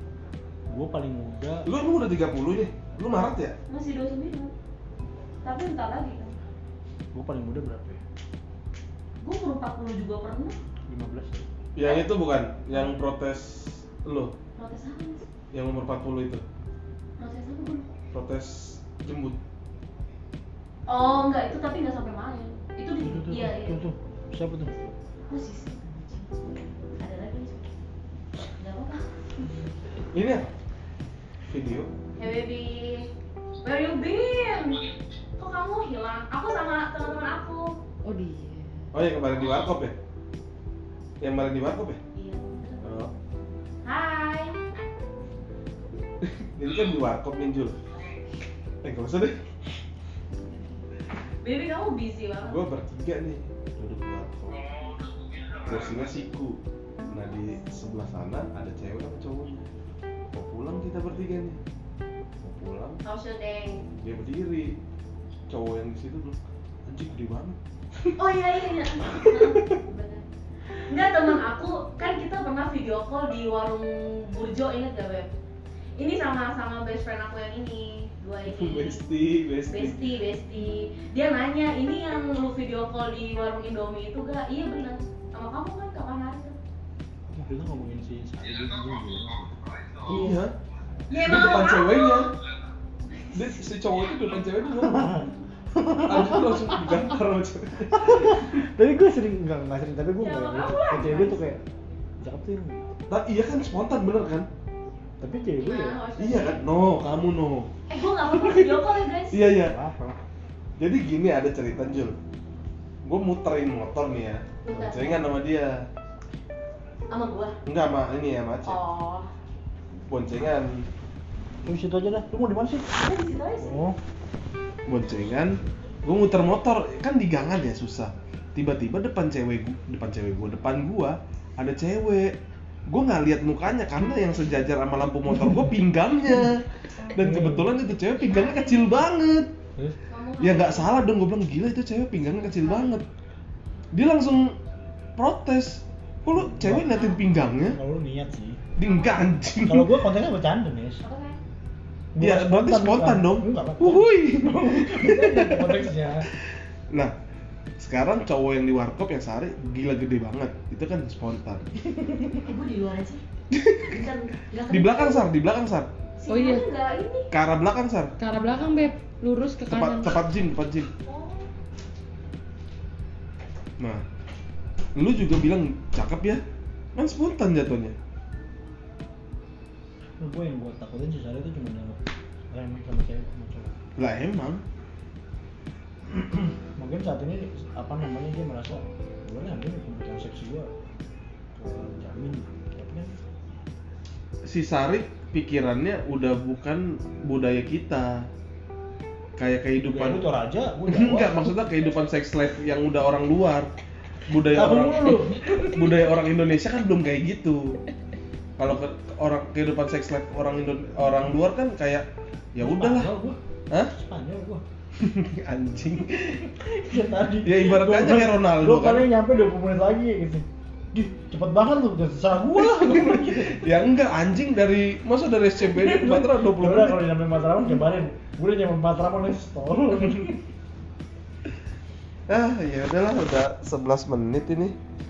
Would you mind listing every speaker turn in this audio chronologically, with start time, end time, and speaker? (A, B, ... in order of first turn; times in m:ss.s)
0:00.7-0:01.7 A
0:01.6-0:03.5 B
0:03.7-0:04.5 C
0:05.4-0:06.4 C
0:07.1-0:08.0 A
0:09.2-0:10.6 C
0:10.9-0:11.4 A
0:11.8-0:14.3 B
0:11.8-0:12.1 C
0:14.5-0:15.3 C
0:15.5-0:16.4 B
0:17.2-0:17.9 C
0:18.1-0:19.4 B
0:20.9-0:23.8 C
0:23.0-0:24.9 A
0:25.3-0:27.7 C
0:28.5-0:29.0 C
0:30.1-0:30.5 B
0:31.4-0:31.9 B
0:32.2-0:33.1 C
0:33.6-0:34.9 C
0:35.4-0:37.8 C
0:38.0-0:38.9 D
0:38.9-0:39.9 B
0:41.2-0:42.0 B
0:42.1-0:42.9 C
0:42.8-0:43.1 B
0:43.8-0:44.7 C
0:46.2-0:47.8 B
0:48.8-0:49.3 B
0:51.4-0:52.7 C
0:52.4-0:54.6 B
0:55.6-0:56.6 B
0:57.1-0:59.6 B
1:00.3-1:01.6 B
1:02.4-1:03.0 B
1:03.0-1:03.8 C
1:04.0-1:04.8 B
1:05.5-1:07.6 B
1:08.2-1:10.2 C
1:10.9-1:15.3 C
1:16.0-1:19.0 C
1:18.5-1:20.0 B
1:19.7-1:26.6 C
1:27.3-1:29.5 A
1:30.1-1:30.4 D
1:30.1-1:30.5 B
1:31.1-1:32.3 C
1:31.2-1:32.3 B
1:33.1-1:33.7 C
1:33.3-1:35.3 B
1:34.9-1:36.6 A
1:36.0-1:38.6 B
1:37.9-1:41.6 A
1:40.2-1:41.5 C
1:42.2-1:42.9 A
1:43.1-1:44.5 B
1:45.2-1:46.0 A
1:45.6-1:46.8 C
1:46.2-1:48.8 B
1:47.9-1:49.4 C
1:49.3-1:49.8 B
1:49.4-1:50.2 A
1:50.8-1:52.2 B
1:53.0-1:55.8 B
1:54.6-1:55.4 C
1:57.1-1:57.6 C
1:57.6-1:58.8 B
1:58.6-1:59.3 C
2:00.0-2:00.8 B
2:01.6-2:02.8 A
2:03.0-2:03.8 C
2:03.6-2:04.0 A
2:04.9-2:12.4 B
2:12.9-2:19.5 B
2:17.2-2:17.7 A
2:18.2-2:18.9 C
2:20.1-2:21.0 C
2:20.4-2:23.0 B
2:22.6-2:23.0 C
2:23.9-2:24.6 B
2:25.2-2:27.8 B
2:26.3-2:28.6 A
2:28.8-2:30.0 B
2:28.8-2:29.3 C
2:29.6-2:31.0 A
2:31.0-2:31.4 C
2:32.1-2:36.3 A
2:32.2-2:35.8 B
2:37.8-2:41.6 B
2:41.9-2:42.4 A
2:42.4-2:43.2 C
2:43.5-2:44.0 B
2:43.8-2:45.3 C
2:44.7-2:45.9 B
2:46.2-2:47.3 C
2:46.3-2:46.6 D
2:47.3-2:48.1 B
2:48.2-2:50.2 D
2:48.3-2:48.9 C
2:49.7-2:50.9 B
2:51.0-2:51.5 C
2:53.8-2:54.0 B
2:55.0-2:56.4 B
2:57.0-2:57.9 B
3:00.2-3:02.0 A
3:02.5-3:03.7 A
3:04.0-3:04.6 B
3:06.1-3:10.7 A
3:11.6-3:13.1 A
3:14.5-3:18.3 B
3:19.4-3:20.2 B
3:19.8-3:21.6 A
3:20.9-3:23.7 B
3:24.3-3:27.8 B
3:24.4-3:25.9 A
3:28.6-3:33.1 B
3:32.6-3:34.6 A
3:35.0-3:36.5 B
3:36.5-3:43.8 A
3:37.4-3:39.1 B
3:42.5-3:47.0 B
3:45.6-3:50.4 A
3:52.3-3:54.7 B